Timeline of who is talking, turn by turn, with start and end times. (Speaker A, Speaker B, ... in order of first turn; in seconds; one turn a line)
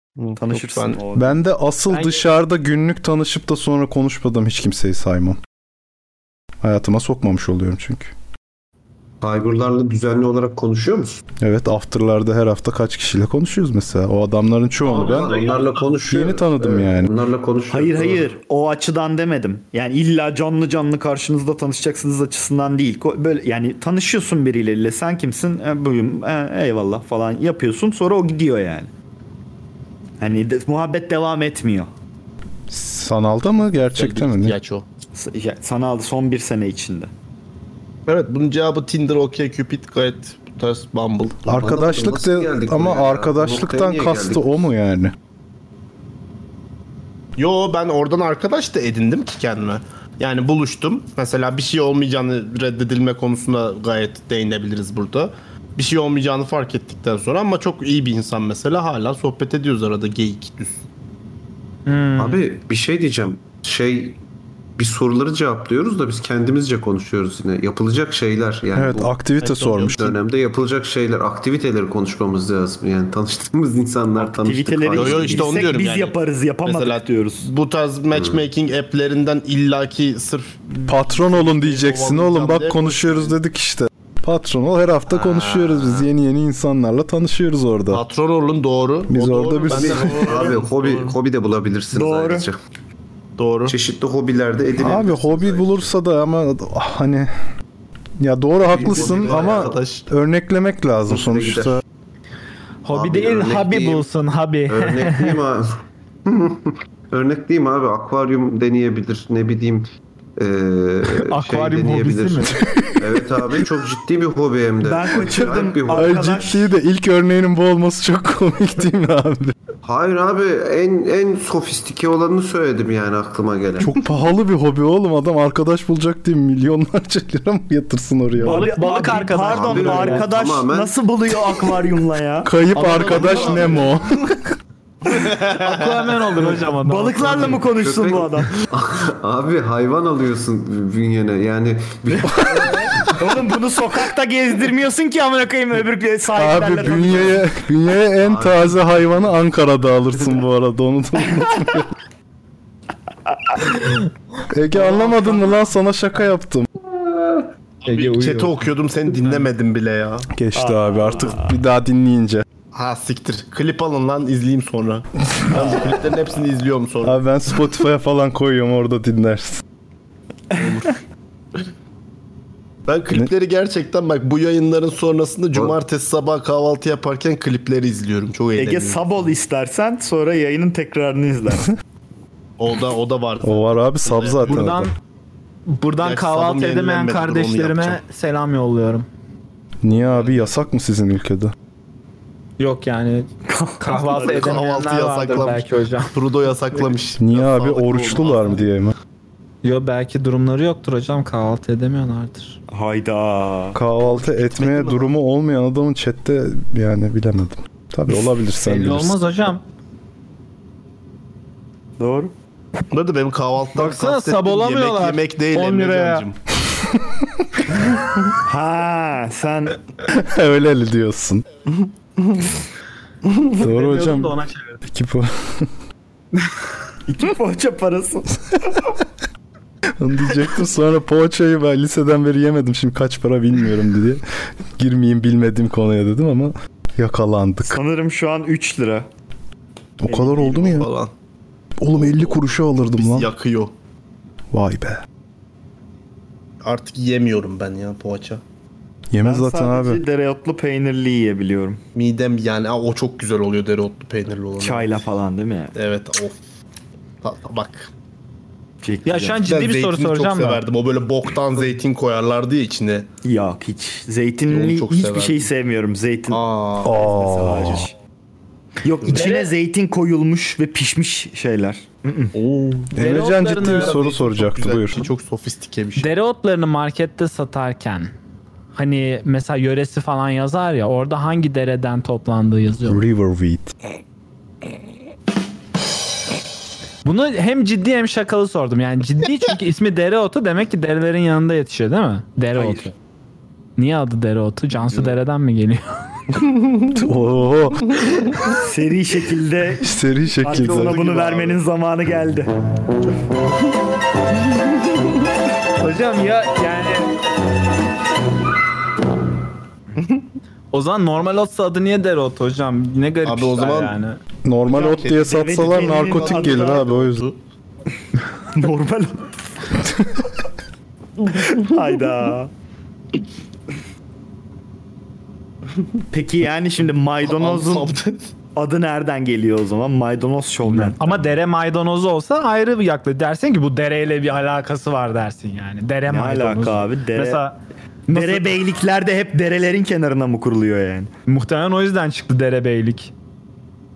Speaker A: 0.2-1.0
Speaker B: 0.3-1.4
Speaker C: 1.1-5.4
Speaker D: 1.9-2.2
Speaker C: 6.6-8.1
Speaker E: 9.2-11.2
Speaker C: 11.4-15.4
Speaker E: 14.8-18.3
Speaker C: 16.0-17.1
Speaker B: 17.7-28.9
Speaker B: 30.2-31.9
Speaker C: 32.7-34.5
Speaker A: 33.9-34.8
Speaker B: 35.1-37.1
Speaker A: 38.1-41.5
Speaker C: 41.5-45.1
Speaker E: 41.5-44.6
Speaker A: 47.4-60.7
Speaker D: 61.9-62.4
Speaker E: 62.2-64.2
Speaker E: 64.8-69.2
Speaker C: 68.7-70.0
Speaker A: 69.4-70.1
Speaker E: 69.9-75.6
Speaker B: 74.2-77.5
Speaker A: 74.9-83.3
Speaker E: 78.1-78.4
Speaker C: 80.9-88.0
Speaker A: 85.2-86.0
Speaker A: 87.9-91.2
Speaker C: 89.1-90.3
Speaker E: 89.7-92.6
Speaker B: 91.9-92.5
Speaker A: 93.4-93.7
Speaker E: 93.7-95.9
Speaker C: 94.8-97.3
Speaker C: 98.2-101.8
Speaker E: 98.7-99.8
Speaker A: 98.7-100.0
Speaker E: 101.1-101.8
Speaker D: 102.8-105.4
Speaker E: 102.9-104.1
Speaker E: 104.7-116.5
Speaker D: 111.3-112.6
Speaker B: 114.8-116.6
Speaker C: 115.9-119.5
Speaker E: 119.8-123.9
Speaker C: 123.8-128.7
Speaker D: 128.4-130.3
Speaker B: 128.4-132.5
Speaker E: 129.4-130.9
Speaker C: 132.4-134.5
Speaker D: 132.8-133.7
Speaker A: 132.8-134.0
Speaker A: 135.1-136.0
Speaker D: 135.3-137.7
Speaker B: 136.8-138.5
Speaker E: 137.6-143.1
Speaker B: 143.1-147.4
Speaker C: 146.3-151.9
Speaker E: 148.2-149.3
Speaker C: 154.5-156.7
Speaker E: 157.1-157.4
Speaker D: 157.8-159.4
Speaker A: 157.8-160.3
Speaker C: 160.3-162.4
Speaker B: 160.5-161.5
Speaker A: 162.7-167.2
Speaker C: 167.0-169.6
Speaker A: 170.5-171.0
Speaker A: 172.9-179.2
Speaker B: 178.6-181.7
Speaker A: 182.6-184.8
Speaker C: 183.4-184.9
Speaker D: 184.5-184.9
Speaker D: 185.7-189.1
Speaker A: 186.0-188.0
Speaker C: 189.8-191.5
Speaker D: 192.6-196.1
Speaker B: 193.5-194.5
Speaker A: 194.1-198.6
Speaker C: 197.2-198.9
Speaker D: 199.6-202.6
Speaker B: 202.7-203.8
Speaker C: 203.7-209.2
Speaker A: 204.0-205.1
Speaker D: 208.5-209.6
Speaker B: 212.0-212.3
Speaker A: 212.9-216.4
Speaker D: 213.7-216.2
Speaker B: 218.4-219.8
Speaker C: 220.1-221.4
Speaker A: 222.2-222.5
Speaker D: 223.6-224.8
Speaker C: 223.6-225.7
Speaker B: 227.1-228.4
Speaker C: 230.0-234.2
Speaker C: 234.8-237.8
Speaker B: 237.7-239.1
Speaker C: 240.0-240.9
Speaker A: 240.1-241.1
Speaker C: 241.8-243.3
Speaker A: 242.1-242.3
Speaker A: 242.9-243.7
Speaker C: 244.5-245.0
Speaker A: 246.6-248.4
Speaker C: 249.1-250.0
Speaker B: 249.2-251.8
Speaker A: 251.9-255.0
Speaker B: 254.6-255.7
Speaker A: 255.7-256.4
Speaker A: 257.2-257.9
Speaker B: 258.8-259.4
Speaker D: 259.0-260.6
Speaker A: 259.4-263.1
Speaker B: 263.2-267.9
Speaker A: 264.5-265.5
Speaker A: 266.3-267.0
Speaker C: 266.8-267.8
Speaker B: 268.8-272.3
Speaker D: 269.1-269.5
Speaker A: 272.3-276.1
Speaker C: 272.9-275.1
Speaker D: 272.9-274.0
Speaker D: 276.0-278.1
Speaker D: 278.7-283.0
Speaker C: 282.9-283.7
Speaker D: 287.0-292.9
Speaker D: 293.8-295.8
Speaker A: 296.6-296.9
Speaker C: 296.9-298.0
Speaker B: 298.6-299.9
Speaker C: 299.8-300.9
Speaker B: 300.4-302.5
Speaker A: 300.5-301.6
Speaker D: 305.8-307.1
Speaker D: 310.7-314.2
Speaker A: 313.2-313.9
Speaker C: 314.4-317.2
Speaker A: 314.7-317.4
Speaker B: 314.7-316.9
Speaker B: 318.5-319.3
Speaker B: 321.3-322.5
Speaker B: 326.1-327.9
Speaker A: 327.2-328.2
Speaker B: 328.6-331.2
Speaker D: 330.7-338.6
Speaker B: 336.1-337.4
Speaker B: 338.1-341.1
Speaker D: 341.3-343.1